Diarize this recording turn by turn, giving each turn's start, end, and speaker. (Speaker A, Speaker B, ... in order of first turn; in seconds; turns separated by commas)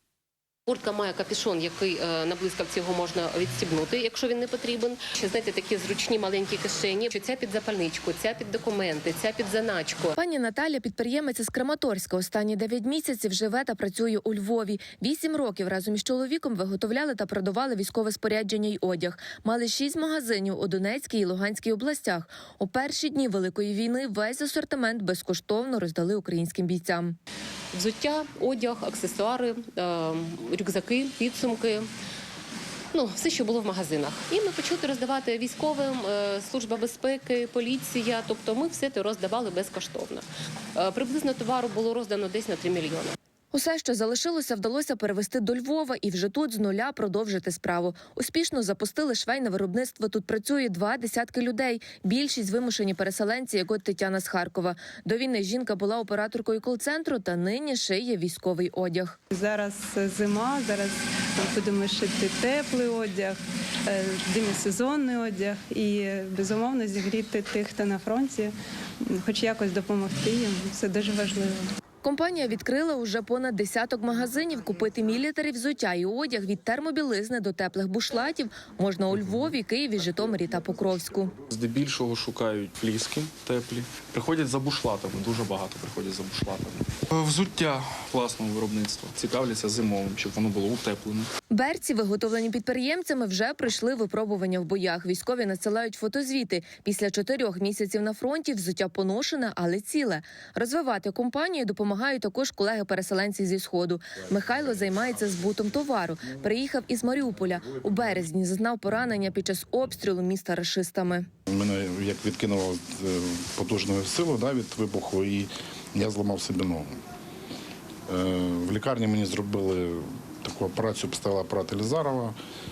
Speaker A: 0.7-10.1, Speaker B: 10.2-27.2, Speaker A: 27.7-31.9, Speaker A: 32.9-43.1, Speaker B: 43.5-59.2, Speaker C: 59.3-63.4, Speaker C: 63.9-68.5, Speaker C: 69.0-71.7, Speaker B: 72.0-81.4, Speaker D: 81.4-91.3, Speaker B: 91.5-111.3, Speaker E: 111.5-116.9, Speaker E: 118.1-122.4